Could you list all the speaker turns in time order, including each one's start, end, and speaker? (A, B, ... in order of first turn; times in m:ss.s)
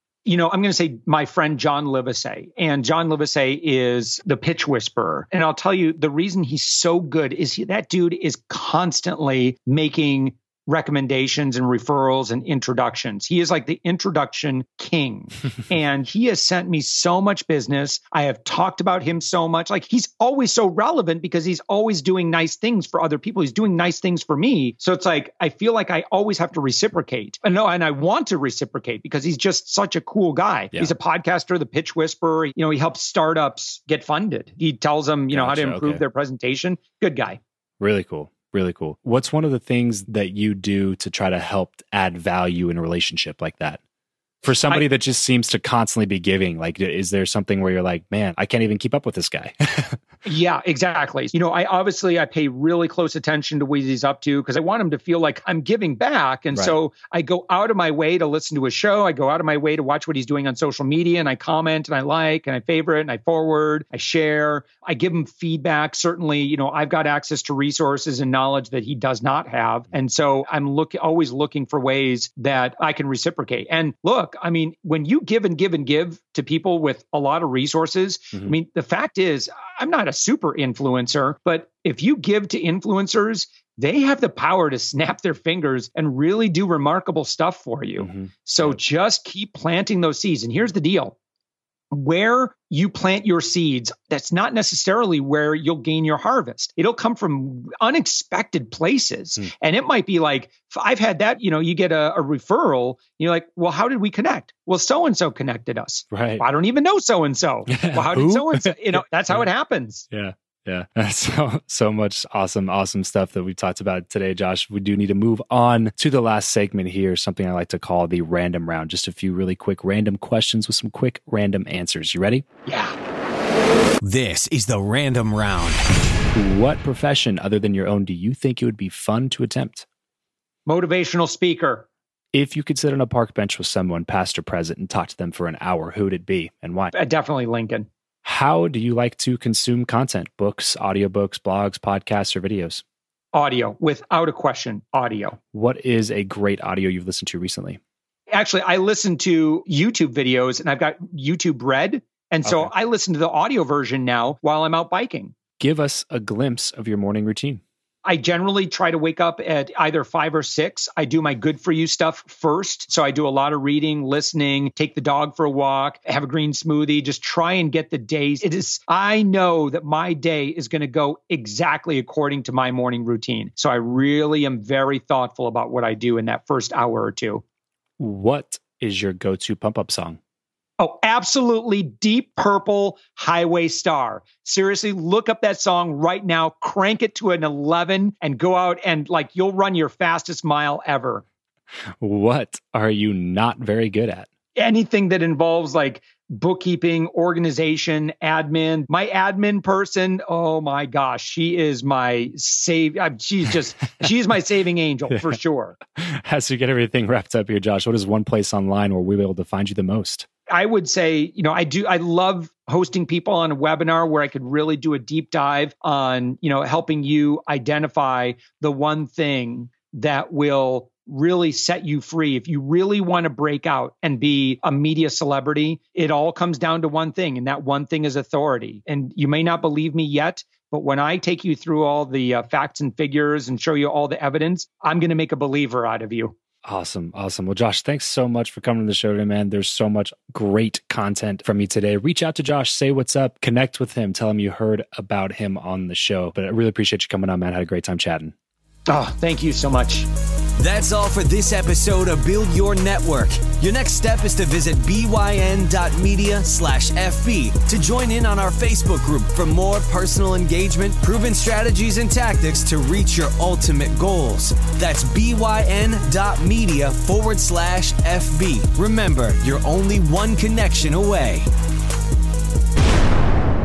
0:00.3-0:37.4 A
0:35.3-0:36.0 B
0:37.8-0:43.8 B
0:44.4-0:50.0 B
0:44.5-0:44.8 A
0:50.3-1:31.2 A
1:28.0-1:28.8 B
1:31.9-1:50.0 A
1:46.1-1:46.4 B
1:47.7-1:49.5 B
1:50.1-2:02.4 B
2:02.7-2:03.0 A
2:04.0-2:05.8 C
2:06.3-2:09.9 B
2:10.7-2:11.9 A
2:12.3-2:16.9 B
2:16.9-2:17.9 A
2:18.2-2:22.8 B
2:23.3-2:25.4 A
2:25.5-2:27.8 B
2:28.3-2:35.3 A
2:32.4-2:32.7 B
2:35.6-2:37.6 B
2:38.0-2:57.4 A
2:58.0-3:00.2 B
3:00.8-3:11.2 A
3:12.0-3:14.3 B
3:14.6-3:25.8 A
3:25.1-3:25.4 B
3:26.0-3:30.3 B
3:30.5-3:56.3 A
3:56.6-4:08.3 B
4:08.9-4:10.1 A
4:10.6-4:31.5 C